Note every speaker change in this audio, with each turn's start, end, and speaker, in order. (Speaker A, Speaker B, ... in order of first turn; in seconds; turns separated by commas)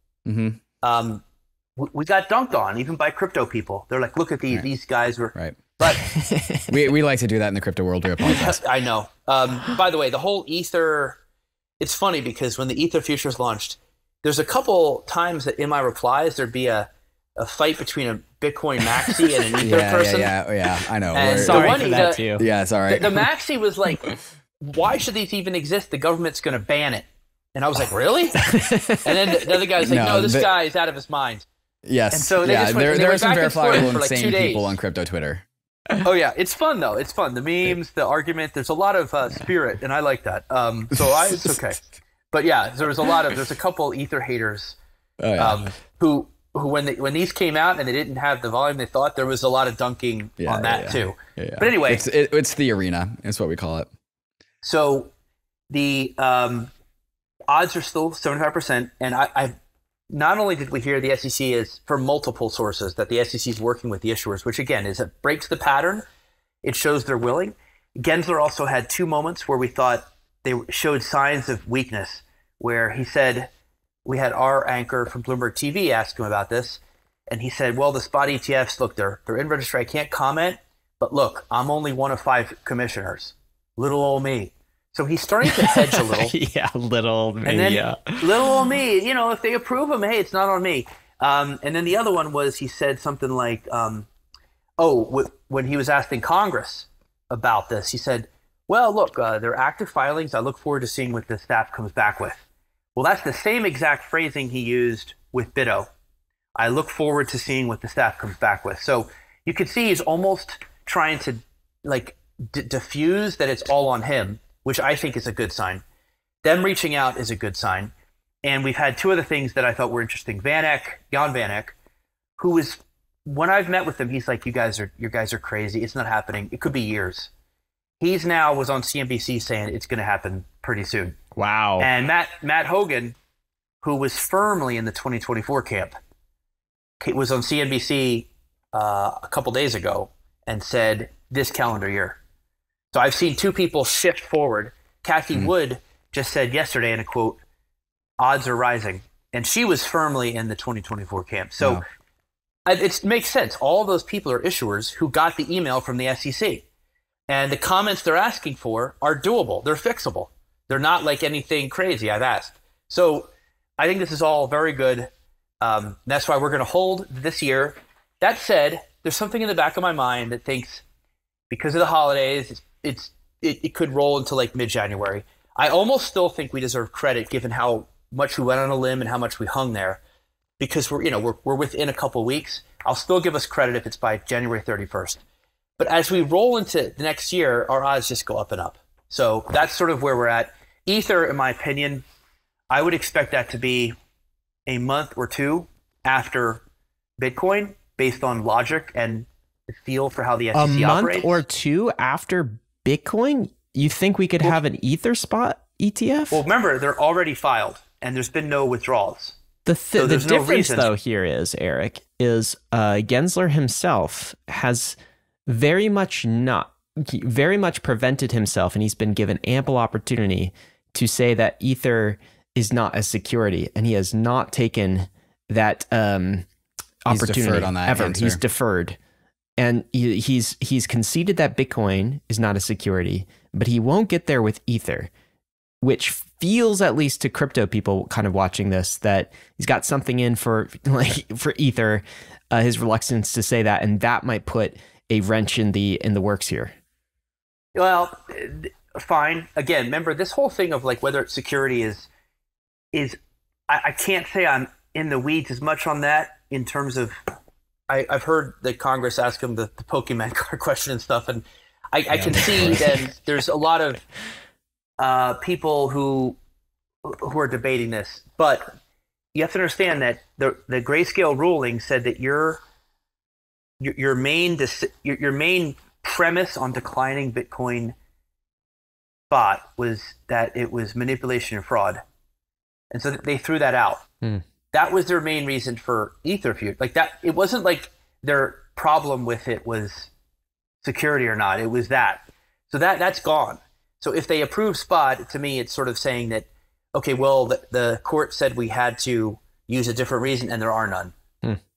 Speaker A: 0.2-0.6, Speaker B: 0.8-1.2, Speaker B: 1.8-6.1, Speaker C: 6.0-6.7, Speaker A: 6.7-8.6, Speaker B: 8.2-11.2, Speaker B: 11.8-20.3, Speaker A: 19.6-23.3, Speaker B: 21.1-22.3, Speaker C: 21.3-22.4, Speaker B: 22.9-31.4, Speaker C: 28.4-29.2, Speaker A: 29.8-30.5, Speaker A: 31.8-35.4, Speaker B: 32.1-34.8, Speaker B: 36.0-44.8, Speaker A: 45.2-45.7, Speaker B: 45.4-52.0, Speaker A: 50.4-53.9, Speaker B: 54.6-55.1, Speaker B: 55.7-56.7, Speaker B: 57.5-59.5, Speaker B: 60.1-66.0, Speaker B: 66.6-73.5, Speaker B: 74.0-86.3, Speaker C: 85.5-88.7, Speaker B: 87.4-94.1, Speaker B: 94.8-102.4, Speaker B: 102.9-105.9, Speaker B: 106.5-115.8, Speaker B: 116.4-117.9, Speaker B: 118.4-121.7, Speaker B: 122.4-127.3, Speaker B: 128.0-131.2, Speaker C: 131.3-131.9, Speaker B: 131.8-133.2, Speaker B: 133.8-135.9, Speaker B: 137.0-142.2, Speaker B: 142.9-147.4, Speaker B: 148.2-151.8, Speaker B: 152.7-156.6, Speaker B: 157.3-165.1, Speaker B: 165.6-170.8, Speaker B: 171.5-180.0, Speaker B: 180.6-185.2, Speaker B: 185.8-192.0, Speaker B: 192.7-193.9, Speaker B: 194.7-196.6, Speaker B: 197.2-201.4, Speaker C: 200.5-206.4, Speaker B: 206.3-209.3, Speaker C: 209.7-226.5, Speaker B: 210.0-210.9, Speaker C: 227.0-229.0, Speaker A: 227.1-228.4, Speaker C: 229.6-235.1, Speaker C: 235.8-246.7, Speaker B: 247.7-252.1, Speaker B: 253.7-257.2, Speaker B: 257.9-264.0, Speaker C: 262.3-262.9, Speaker B: 265.0-266.4, Speaker B: 267.0-268.8, Speaker B: 269.3-272.6, Speaker B: 273.8-277.9, Speaker B: 279.3-282.0, Speaker B: 282.9-284.1, Speaker B: 284.7-290.1, Speaker B: 290.8-301.1